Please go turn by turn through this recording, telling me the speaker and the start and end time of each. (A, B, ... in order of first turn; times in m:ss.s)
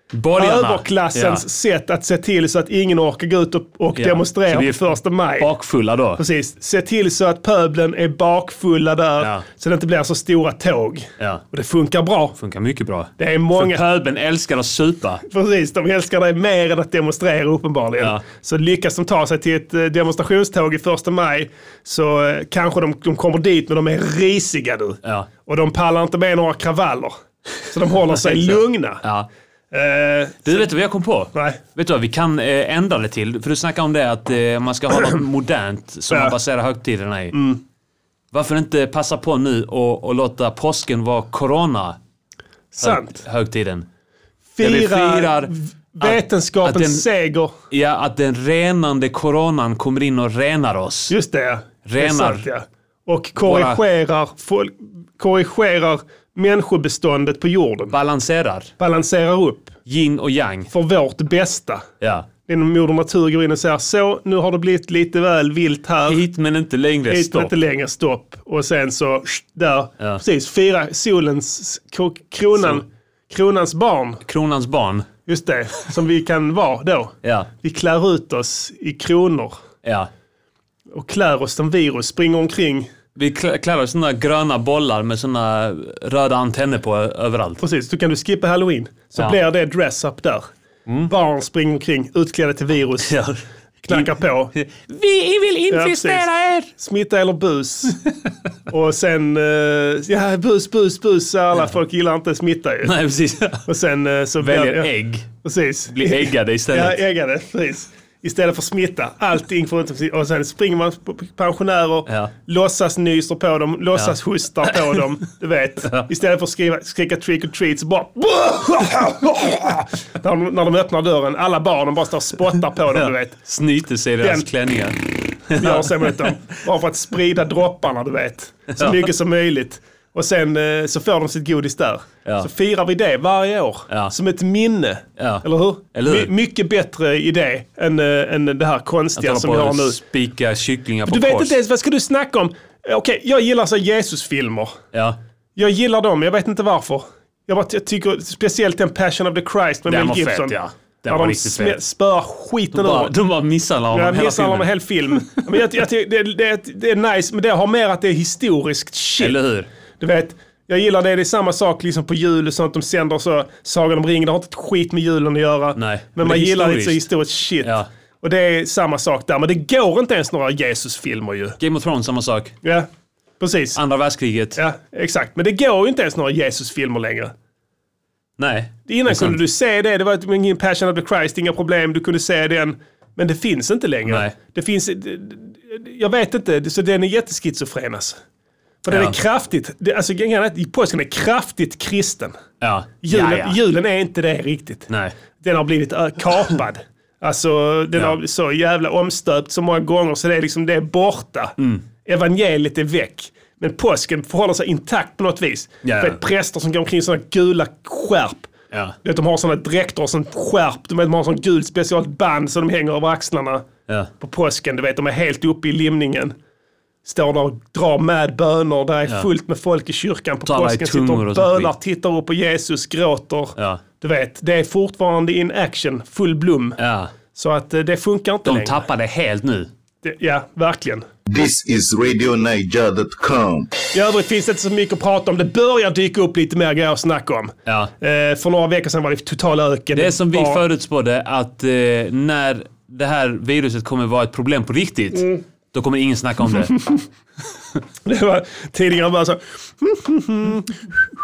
0:00.1-0:01.4 A
0:00.3-0:05.5 B
0:04.0-0:06.2 A
0:06.2-0:12.4 B
0:09.2-0:09.4 A
0:12.4-0:15.2 A
0:13.2-0:13.8 B
0:15.2-0:27.1 B
0:27.7-0:29.0 B
0:28.3-0:29.3 A
0:29.7-0:30.7 B
0:30.4-0:37.3 A
0:31.3-0:31.6 B
0:37.3-0:37.6 B
0:38.3-0:42.0 A
0:42.7-0:43.2 B
0:42.8-0:43.8 A
0:44.6-0:47.5 B
0:44.6-0:47.0 A
0:47.7-0:51.1 A
0:51.1-0:58.0 B
0:51.8-0:52.4 A
0:53.4-0:53.8 A
0:57.9-0:58.7 A
0:58.8-0:59.7 B
0:59.8-1:00.7 A
1:00.7-1:01.9 B
1:02.0-1:02.3 A
1:02.4-1:06.2 B
1:06.0-1:07.5 A
1:07.1-1:14.2 B
1:14.2-1:15.0 A
1:15.3-1:19.6 B
1:17.2-1:17.5 A
1:20.9-1:22.9 B
1:23.2-1:27.6 A
1:27.6-1:30.5 B
1:31.0-1:33.2 B
1:33.0-1:36.7 A
1:33.8-1:34.5 B
1:35.7-1:38.0 B
1:38.7-1:42.9 B
1:42.8-1:43.6 A
1:43.6-1:44.9 B
1:44.4-1:45.3 A
1:45.4-2:03.4 B
1:45.9-1:47.0 A
1:52.1-1:52.3 A
1:54.7-1:55.0 A
2:02.9-2:06.3 A
2:04.2-2:04.5 B
2:05.5-2:20.0 B
2:08.8-2:09.1 A
2:15.2-2:16.3 A
2:19.2-2:21.6 A
2:21.0-2:24.8 B
2:25.6-2:30.6 B
2:29.9-2:31.8 A
2:31.1-2:33.1 B
2:32.7-2:34.7 A
2:33.9-2:39.4 B
2:39.2-2:39.7 A
2:40.0-2:51.6 B
2:45.8-2:47.1 A
2:51.6-2:52.5 A
2:53.4-2:53.8 B
2:53.7-2:54.6 A
2:54.6-2:57.3 B
2:58.4-2:59.4 A
2:58.9-3:08.2 B
3:04.0-3:04.3 A
3:08.8-3:12.3 B
3:08.9-3:09.2 A
3:12.6-3:13.6 A
3:13.0-3:28.5 B
3:25.8-3:26.2 A
3:29.0-3:33.6 B
3:34.2-3:36.3 B
3:37.0-3:46.8 B
3:40.4-3:41.7 A
3:46.8-3:47.1 A
3:47.3-3:48.8 B
3:48.4-3:49.7 A
3:50.0-3:51.1 B
3:51.3-3:53.7 C
3:53.9-4:00.6 B
3:59.9-4:06.9 A
4:08.0-4:10.9 B